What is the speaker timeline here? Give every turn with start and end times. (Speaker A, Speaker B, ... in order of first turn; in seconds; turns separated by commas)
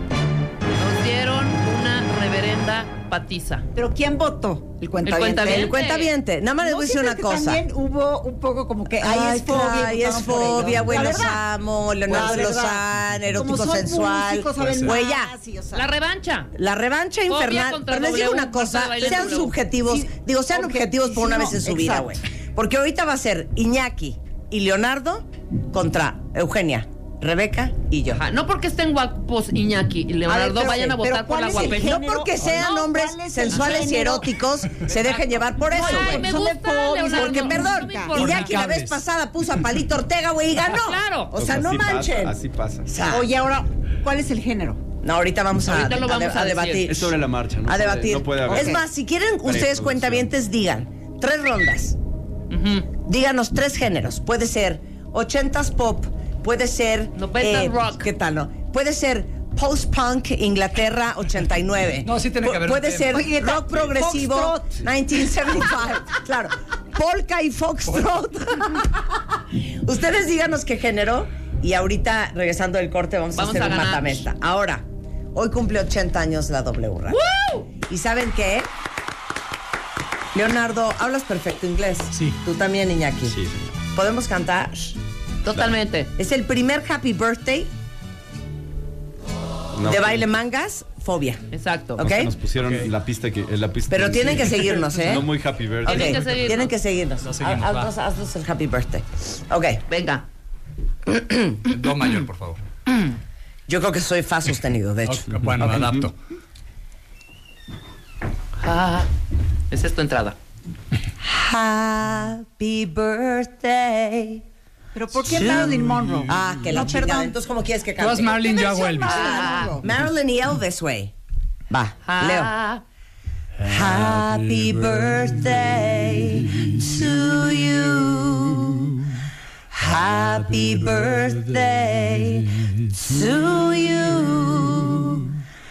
Speaker A: 0.7-3.7, Speaker B: 3.8-5.7, Speaker A: 5.0-6.1, Speaker C: 5.5-7.7, Speaker B: 6.6-11.4, Speaker C: 8.9-15.3, Speaker B: 12.1-15.9, Speaker A: 15.7-16.5, Speaker C: 16.6-28.2, Speaker A: 17.3-19.6, Speaker B: 19.9-22.2, Speaker A: 28.1-31.9, Speaker B: 30.3-34.4, Speaker C: 31.5-36.4, Speaker B: 35.0-38.4, Speaker A: 35.6-38.6, Speaker C: 37.1-43.3, Speaker D: 38.2-39.0, Speaker A: 40.6-41.3, Speaker E: 41.3-42.9, Speaker B: 43.1-44.8, Speaker C: 45.0-52.0, Speaker A: 45.7-46.9, Speaker E: 46.9-48.8, Speaker B: 48.5-48.8, Speaker E: 49.5-50.3, Speaker A: 52.5-52.9, Speaker C: 53.1-77.2, Speaker A: 57.2-58.1, Speaker D: 62.0-63.2, Speaker B: 63.1-64.8, Speaker A: 73.3-74.2, Speaker A: 77.1-77.7, Speaker C: 77.8-78.7, Speaker C: 80.3-83.4, Speaker D: 82.1-82.4, Speaker E: 83.3-83.7, Speaker C: 84.0-85.0, Speaker A: 85.5-86.1, Speaker C: 86.2-87.7, Speaker E: 89.7-90.4, Speaker C: 89.8-91.5, Speaker A: 91.5-92.0, Speaker C: 92.0-92.3, Speaker E: 92.0-96.2, Speaker D: 92.6-92.9, Speaker C: 93.9-95.3, Speaker C: 95.8-99.8, Speaker A: 95.9-96.8, Speaker D: 97.2-97.9, Speaker A: 99.9-100.2, Speaker C: 101.1-101.6, Speaker D: 101.7-102.6, Speaker C: 103.7-105.3, Speaker D: 105.1-106.1, Speaker E: 105.5-106.1, Speaker A: 108.6-109.1, Speaker A: 109.7-110.4, Speaker C: 111.2-114.4, Speaker B: 115.0-117.4, Speaker C: 115.3-121.1, Speaker D: 115.3-116.2, Speaker D: 118.0-119.4, Speaker B: 118.6-119.8, Speaker A: 119.0-119.8, Speaker C: 121.7-122.5, Speaker A: 122.0-122.8, Speaker C: 123.6-129.0, Speaker C: 129.7-135.3